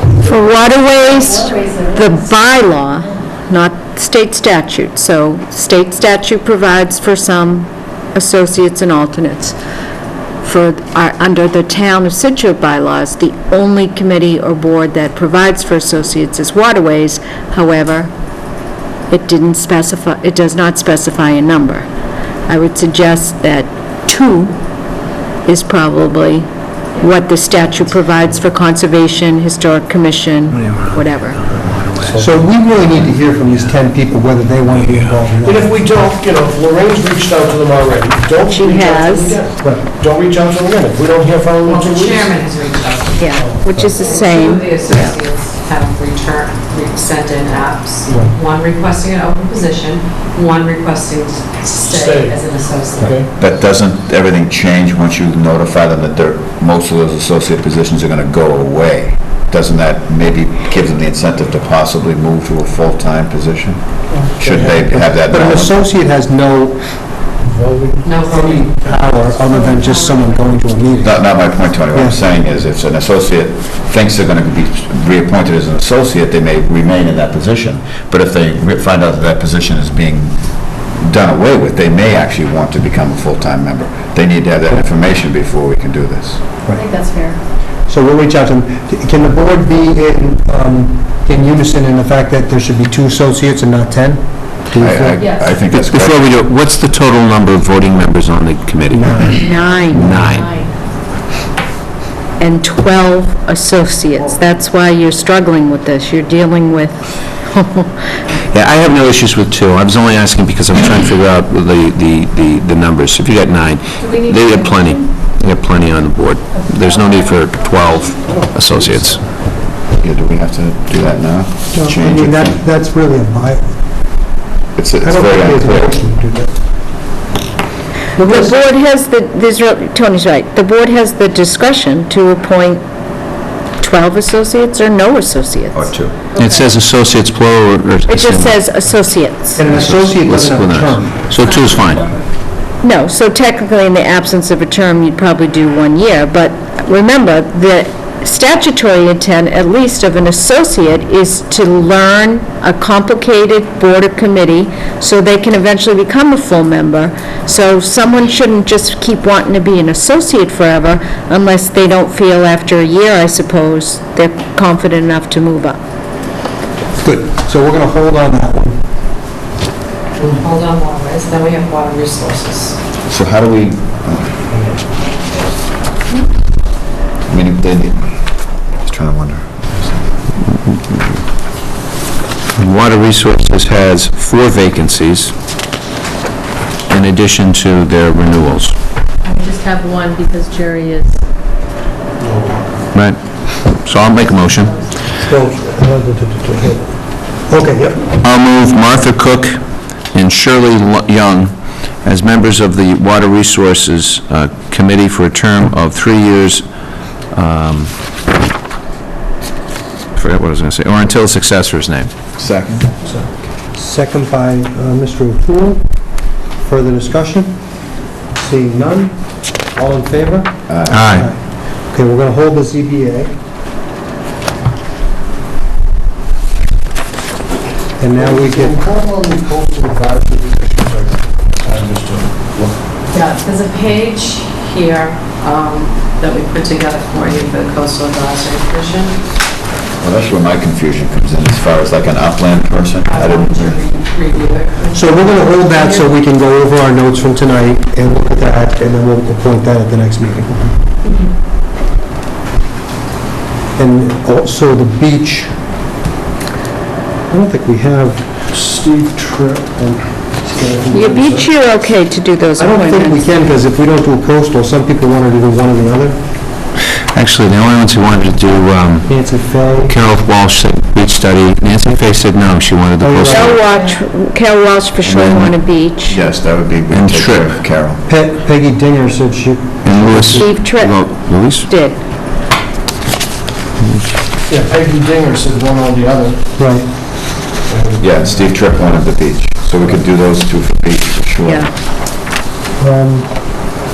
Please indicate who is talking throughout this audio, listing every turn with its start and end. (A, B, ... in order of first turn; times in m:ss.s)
0:00.2-0:09.6 A
0:01.4-0:02.0 B
0:10.4-0:18.1 A
0:19.1-0:21.9 A
0:22.5-0:24.6 A
0:25.4-0:31.4 A
0:30.7-0:31.0 C
0:31.6-0:32.2 C
0:32.1-0:35.7 D
0:35.4-0:42.4 E
0:38.4-0:39.4 A
0:41.6-0:53.1 F
0:43.2-0:45.2 A
0:48.1-0:48.3 D
0:51.8-0:53.3 E
0:53.4-1:05.7 G
1:04.1-1:04.8 E
1:04.9-1:06.8 D
1:07.4-1:09.6 E
1:08.0-1:08.8 F
1:08.3-1:11.2 D
1:09.5-1:10.8 B
1:11.0-1:20.4 G
1:11.9-1:12.3 D
1:20.9-1:26.4 G
1:26.7-1:27.4 B
1:27.9-1:35.3 D
1:34.7-1:36.4 G
1:35.2-1:35.6 B
1:35.6-1:40.5 C
1:38.9-1:39.5 D
1:39.5-1:40.1 A
1:40.0-1:40.7 B
1:42.4-1:47.9 A
1:48.5-1:59.2 C
1:54.0-1:54.9 F
1:56.8-1:58.0 B
1:58.2-1:59.3 E
1:59.9-2:02.6 G
2:01.7-2:03.7 D
2:04.7-2:06.0 G
2:05.0-2:06.5 D
2:08.2-2:08.5 D
2:08.2-2:12.8 A
2:13.8-2:16.0 A
2:15.7-2:16.2 G
2:16.3-2:16.6 B
2:16.4-2:18.6 C
2:18.1-2:19.7 A
2:19.6-2:21.3 D
2:19.6-2:22.1 C
2:21.3-2:22.2 B
2:22.8-2:45.8 A
2:47.0-2:48.8 D
2:50.2-2:52.8 F
2:53.1-2:54.3 G
2:57.3-2:58.0 G
2:58.8-2:59.9 G
3:02.6-3:05.3 C
3:06.9-3:08.7 C
3:09.2-3:11.2 B
3:12.2-3:12.8 E
3:12.9-3:14.8 C
3:14.5-3:14.8 B
3:15.2-3:18.1 D
3:18.2-3:19.6 C
3:20.1-3:26.7 C
3:27.3-3:27.9 C
3:30.2-3:32.1 C
3:32.4-3:33.0 G
3:33.7-3:35.8 D
3:36.6-3:37.6 D
3:38.4-3:43.3 D
3:40.7-3:41.2 G
3:40.9-3:41.3 C
3:48.0-3:48.8 D
3:48.1-3:52.8 E
3:53.1-3:59.2 F
4:00.0-4:03.8 G
4:03.0-4:06.1 F
4:04.9-4:10.8 D
4:11.0-4:11.3 F
4:13.8-4:15.5 D
4:17.3-4:18.3 D
4:18.5-4:21.5 E
4:20.9-4:23.3 A
4:22.6-4:26.2 D
4:27.1-4:29.2 C
4:29.0-4:30.0 D
4:29.8-4:33.6 C
4:33.0-4:33.6 D
4:33.3-4:36.3 A
4:35.0-4:38.0 G
4:36.9-4:37.6 C
4:38.1-4:40.5 D
4:39.8-4:41.7 C
4:40.4-4:42.0 A
4:43.8-4:44.1 C
4:44.5-4:46.4 E
4:46.6-4:46.8 D
4:47.7-4:48.5 E
4:48.0-4:51.6 G
4:51.4-4:51.7 A
4:52.8-4:53.3 D